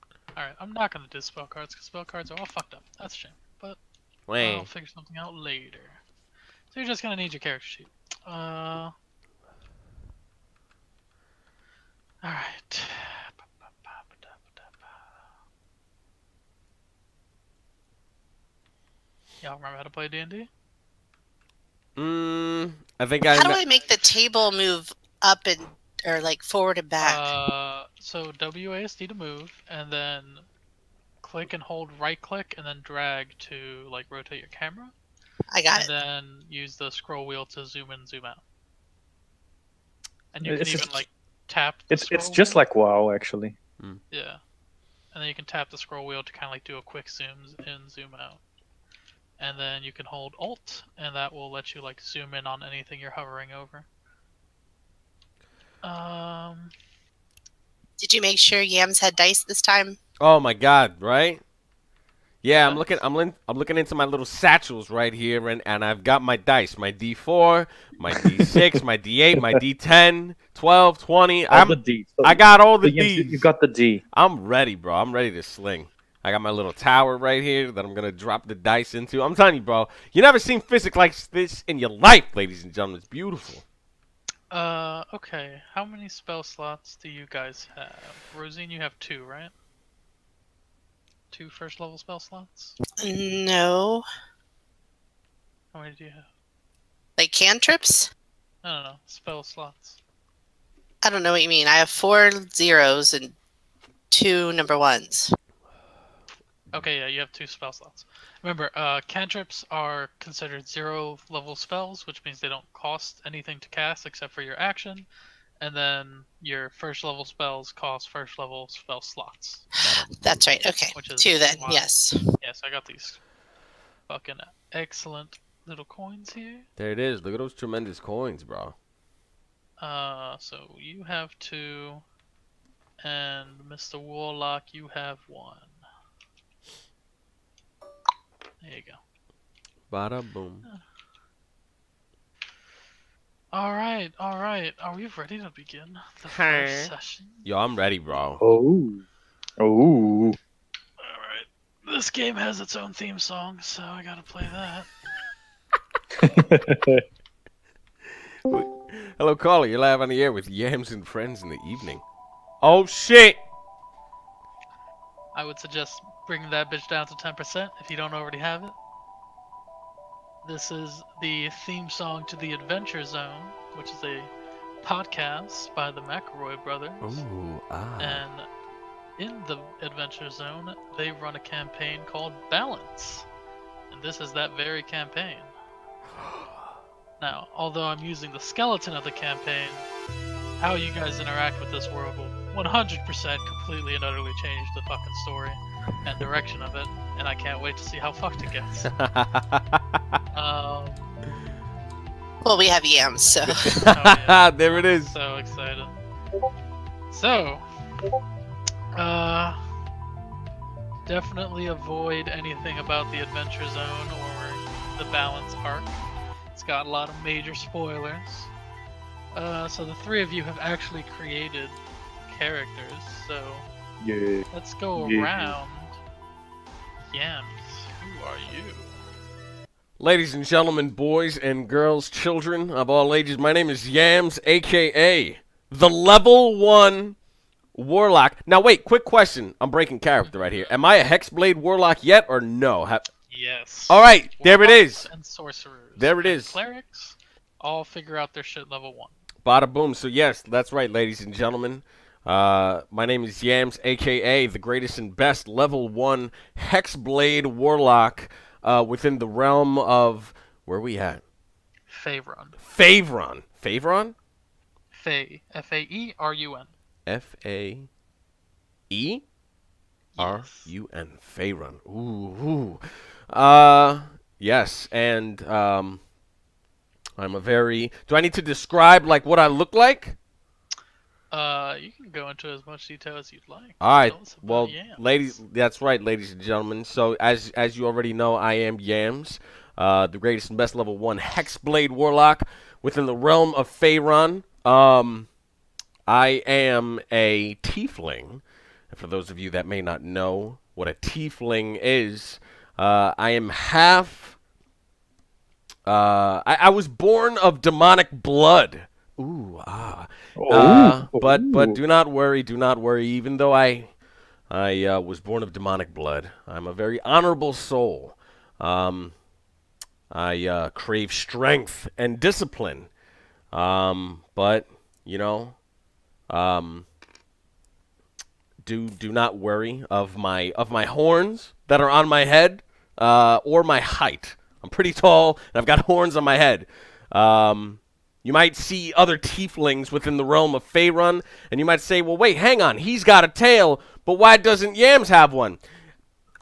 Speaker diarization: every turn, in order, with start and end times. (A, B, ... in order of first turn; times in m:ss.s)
0:00.4-0:03.8 A
0:04.3-0:04.7 B
0:04.4-0:06.0 A
0:06.7-0:08.9 A
0:12.2-0:15.0 A
0:19.4-0:20.5 A
0:22.0-0:23.6 B
0:23.3-0:27.3 C
0:27.0-0:30.5 A
0:31.2-0:34.9 A
0:35.5-0:35.9 C
0:35.7-0:38.4 A
0:40.3-0:42.6 A
0:40.4-0:41.0 D
0:41.9-0:43.6 D
0:44.1-0:44.4 A
0:45.1-0:48.4 A
0:49.4-0:53.9 A
0:55.8-0:56.7 A
0:58.0-1:00.0 C
1:00.2-1:01.4 B
1:02.4-1:13.5 B
1:02.5-1:03.0 A
1:11.5-1:14.0 D
1:14.1-1:23.6 B
1:24.5-1:29.5 A
1:31.3-1:32.8 A
1:33.0-1:34.0 C
1:35.7-1:36.3 A
1:37.2-1:38.1 C
1:38.6-1:40.0 A
1:41.0-1:43.4 C
1:44.1-1:45.3 C
1:46.7-1:55.1 A
1:55.6-1:59.7 A
1:59.8-2:00.5 B
2:00.2-2:02.2 C
2:00.9-2:01.9 A
2:02.4-2:03.2 A
2:04.1-2:06.7 A
2:06.8-2:08.8 B
2:09.8-2:12.0 A
2:13.0-2:15.8 A
2:18.6-2:19.0 A
2:19.9-2:20.7 B
2:23.5-2:27.5 A
2:26.3-2:26.9 B
2:27.4-2:28.4 B
2:28.4-2:29.0 D
2:29.6-2:30.4 D
2:31.0-2:34.9 A
2:36.3-2:37.0 D
2:38.4-2:42.0 B
2:42.6-2:43.4 B
2:45.4-2:48.8 A
2:50.4-2:57.2 A
2:57.0-2:58.2 B
2:58.0-2:58.5 A
2:59.2-3:03.3 A
3:03.9-3:05.5 A
3:07.2-3:09.9 A
3:10.6-3:18.9 A
3:18.9-3:20.0 B
3:20.3-3:21.1 A
3:22.4-3:23.7 C
3:23.5-3:25.2 B
3:23.9-3:26.0 A
3:27.1-3:27.6 A
3:29.0-3:29.6 A
3:31.1-3:36.0 A
3:36.5-3:38.5 A
3:39.3-3:43.6 A
3:44.0-3:45.6 D
3:44.5-3:46.0 A
3:47.1-3:49.0 A
3:50.0-3:57.2 B
3:57.7-4:03.1 B
4:00.2-4:00.8 A
4:03.3-4:09.2 A
4:03.9-4:05.1 B
4:06.0-4:06.6 B
4:09.4-4:21.2 B
4:21.9-4:22.6 A
4:22.6-4:24.2 B
4:24.9-4:26.7 A
4:27.1-4:27.9 B
4:28.9-4:29.2 B
4:30.2-4:30.7 A
4:30.2-4:36.0 B
4:37.2-4:40.2 B
4:41.3-4:45.4 A
4:43.8-4:55.3 B
4:56.1-5:04.4 B
5:05.9-5:13.9 B
5:10.4-5:11.8 D
5:14.5-5:19.1 B
5:20.1-5:22.9 B
5:23.5-5:25.6 B
5:26.3-5:26.9 B
5:28.6-5:45.6 B